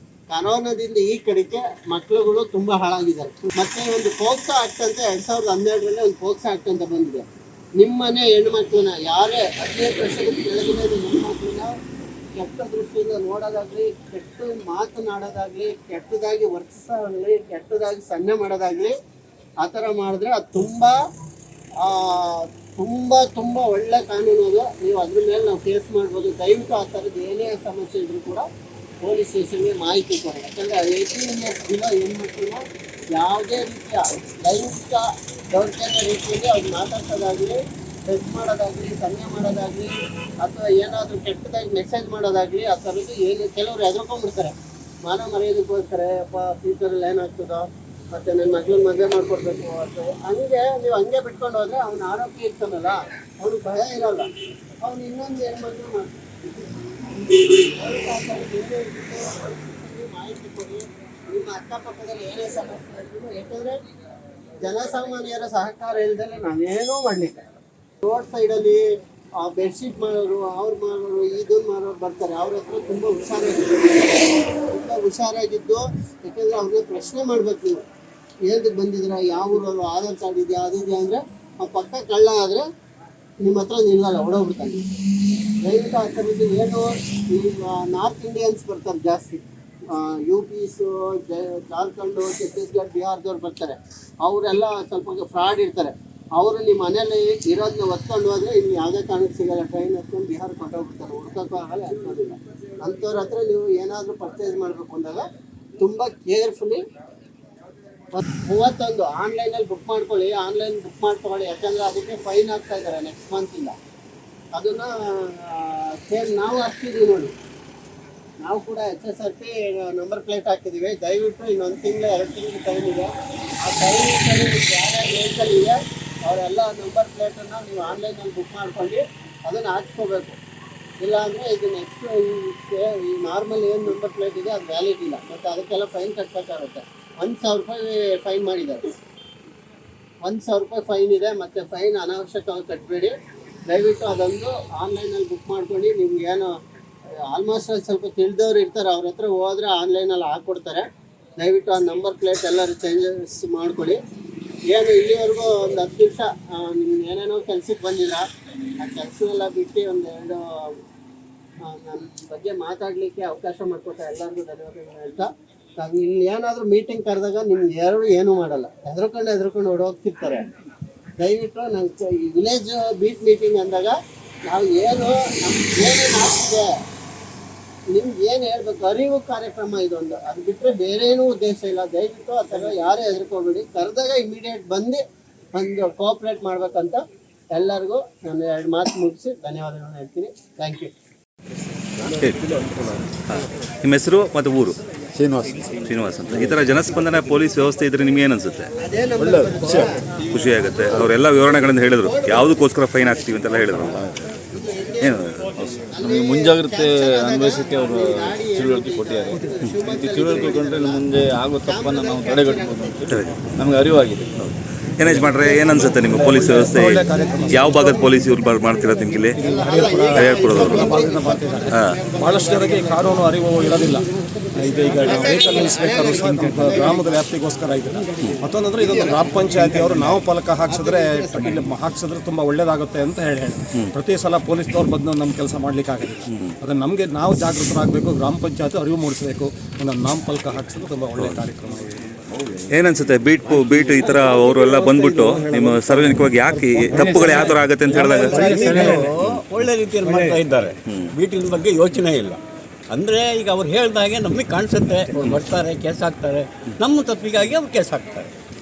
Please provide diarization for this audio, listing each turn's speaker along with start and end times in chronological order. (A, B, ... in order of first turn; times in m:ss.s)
0:00.3-0:07.2 A
0:07.8-0:11.7 A
0:12.4-0:19.0 A
0:19.6-0:21.0 A
0:21.8-0:28.5 A
0:29.0-0:32.6 A
0:33.1-1:03.8 A
1:04.6-1:07.4 A
1:08.0-1:08.8 A
1:09.4-1:17.8 A
1:18.4-1:22.6 A
1:23.4-1:24.8 A
1:25.6-1:45.3 A
1:45.8-1:46.8 A
1:48.1-1:53.8 A
1:54.5-1:57.3 A
1:58.4-2:10.4 A
2:11.0-2:18.8 A
2:20.2-2:23.1 A
2:23.6-2:26.6 A
2:27.2-2:30.9 A
2:31.4-2:34.0 A
2:34.7-2:38.2 A
2:38.8-2:40.8 A
2:41.6-2:50.4 A
2:51.2-2:56.7 A
2:57.9-3:05.0 A
3:05.5-3:07.0 A
3:07.5-3:10.9 A
3:12.2-3:13.1 B
3:12.2-3:12.4 C
3:13.3-3:14.8 C
3:15.1-3:15.8 B
3:15.8-3:18.7 C
3:16.3-3:16.7 B
3:18.8-3:22.7 A
3:19.2-3:20.9 B
3:20.3-3:24.0 C
3:23.7-3:31.0 A
3:25.0-3:25.7 C
3:25.6-3:34.4 B
3:31.6-3:33.0 A
3:33.1-3:33.4 C
3:34.4-3:39.4 C
3:35.1-3:35.4 B
3:35.6-3:38.1 D
3:39.3-4:02.1 D
3:39.4-3:43.2 A
3:40.1-3:40.9 C
3:44.9-3:47.2 A
3:48.2-3:51.7 A
4:02.7-4:09.7 C
4:03.7-4:09.1 D
4:07.0-4:18.3 E
4:10.0-4:10.4 D
4:10.8-4:11.1 C
4:15.2-4:15.4 C